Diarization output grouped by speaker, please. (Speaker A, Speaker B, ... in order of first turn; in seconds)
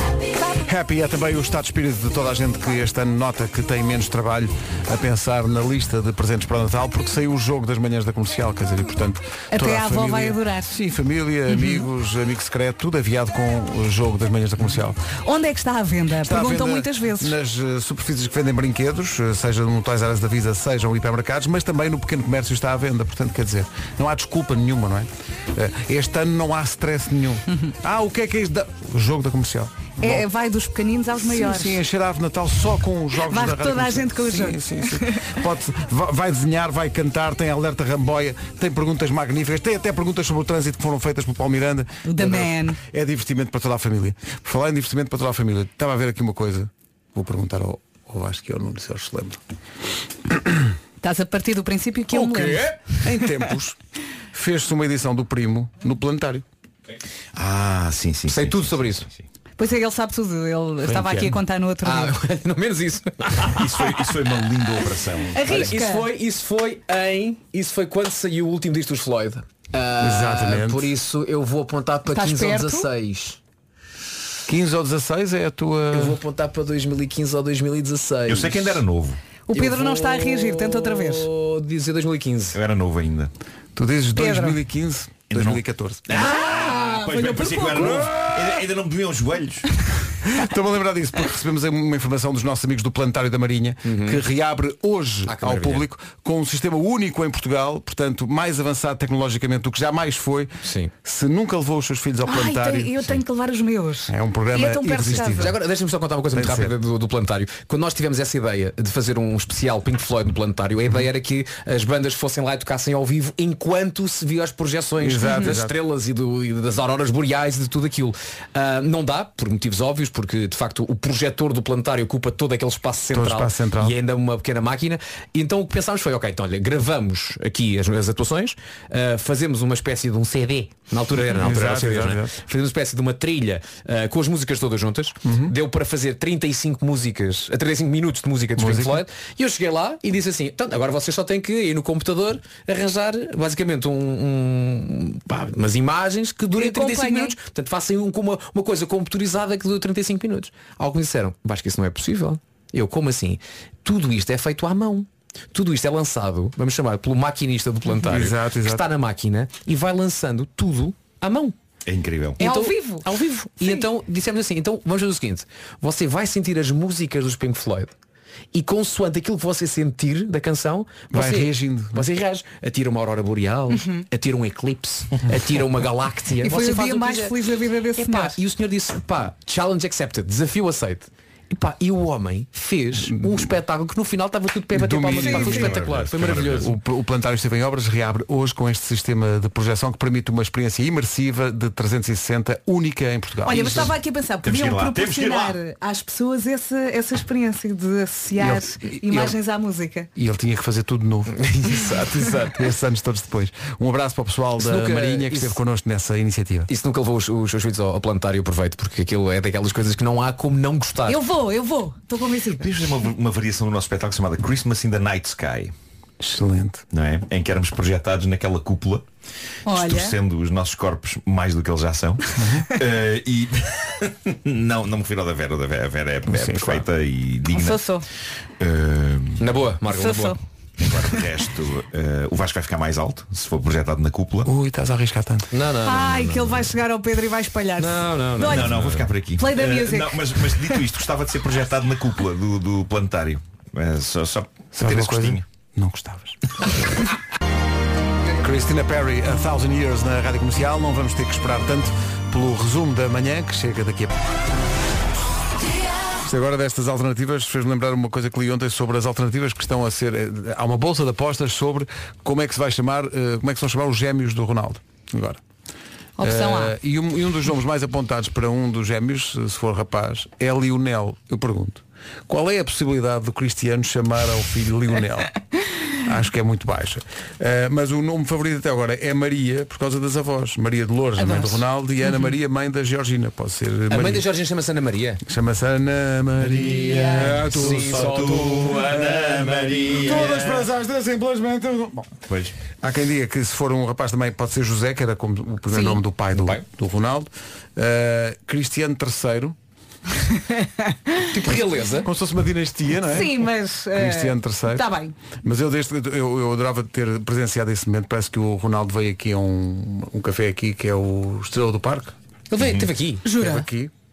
Speaker A: 0.6-15.0, 16.2-30.2, 31.2-49.4, 53.0-53.8, 54.3-56.5, 60.8-61.4, 70.0-70.9, 74.5-76.2, 83.8-86.1, 87.8-88.3, 90.2-103.2, 104.1-105.6, 106.3-106.7, 115.0-115.8, 123.1-124.0, 131.3-132.3, 135.2-135.6, 138.6-139.1, 158.0-158.9, 171.1-172.1, 183.1-183.5, 184.7-193.9, 198.4-199.4, 200.2-201.4, 202.4-206.7, 216.2-216.8, 222.4-222.7, 226.3-226.9, 234.5-235.5, 244.7-246.7, 248.4-254.1, 256.2-265.4, 266.2-275.3, 276.0-284.3, 285.2-292.2, 292.8-299.6, 301.5-304.9, 305.4-312.1, 313.3-313.9
Speaker B: 9.5-10.7, 11.5-11.8, 15.2-17.3, 30.0-31.8, 33.3-35.3, 42.0-42.8, 51.0-52.7, 59.6-62.1, 65.3-66.1, 72.1-72.9, 79.5-81.3, 84.2-84.6, 87.2-88.0, 102.3-105.5, 115.2-115.5, 146.5-147.4, 162.4-163.1, 173.7-174.0, 176.4-178.3, 185.2-185.7, 193.4-200.1, 211.1-212.7, 219.7-220.1, 227.5-228.1, 229.9-230.4, 235.8-238.7, 239.4-240.8, 266.2-266.8, 281.2-281.6, 295.7-296.0, 300.5-301.3, 303.1-305.1, 313.2-313.7
Speaker C: 52.1-53.0, 58.3-59.1, 61.8-64.6, 65.4-73.4, 75.9-78.8, 79.5-82.6, 86.1-87.8, 93.8-94.2, 95.3-95.9, 100.6-100.9, 105.2-161.6, 162.4-167.9, 168.5-177.3, 178.0-186.7, 201.3-202.6, 204.6-205.6, 206.7-211.2, 229.4-230.4, 235.5-236.6, 237.8-239.1, 283.9-285.2, 287.1-289.1, 296.4-296.6, 301.3-302.1, 312.5-313.2
Speaker D: 57.4-59.2, 63.5-65.7, 78.3-79.2, 82.5-83.3, 85.3-89.7, 161.9-162.4, 185.3-186.7, 194.4-195.6, 212.6-215.7, 216.9-219.1, 219.7-227.8, 228.6-229.5, 230.8-234.5, 238.4-245.4, 286.5-290.7, 292.3-292.6, 312.6-312.9